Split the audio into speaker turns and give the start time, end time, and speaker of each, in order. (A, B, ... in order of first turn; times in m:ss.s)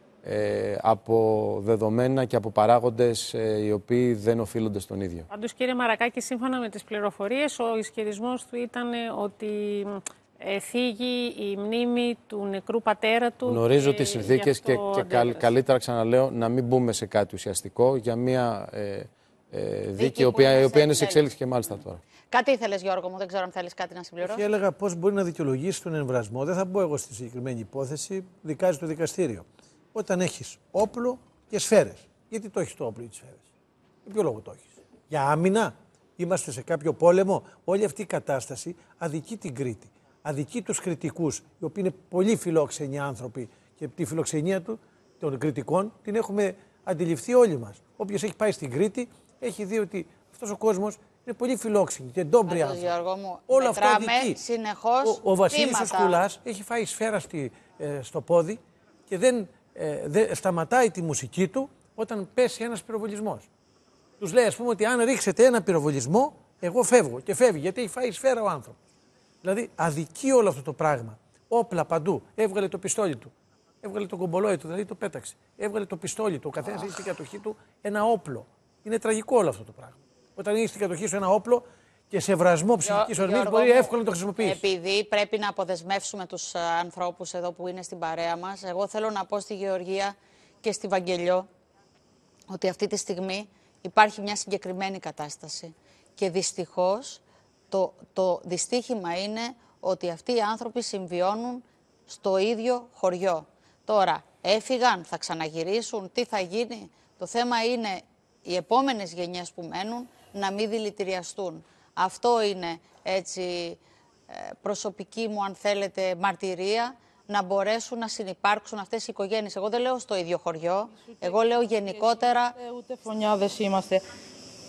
0:00.2-0:05.2 A
0:05.3-0:15.6 B
0:13.5-0:22.0 A
0:20.0-0:21.3 C
0:22.3-0:24.5 C
0:24.2-0:33.4 D
0:34.0-0:52.9 D
0:52.4-0:56.2 C
0:53.5-0:54.4 D
0:55.0-1:03.5 D
1:04.2-1:08.8 D
1:09.4-1:13.3 D
1:13.8-1:24.6 D
1:22.8-1:31.5 C
1:32.5-2:02.6 C
2:01.9-2:04.0 E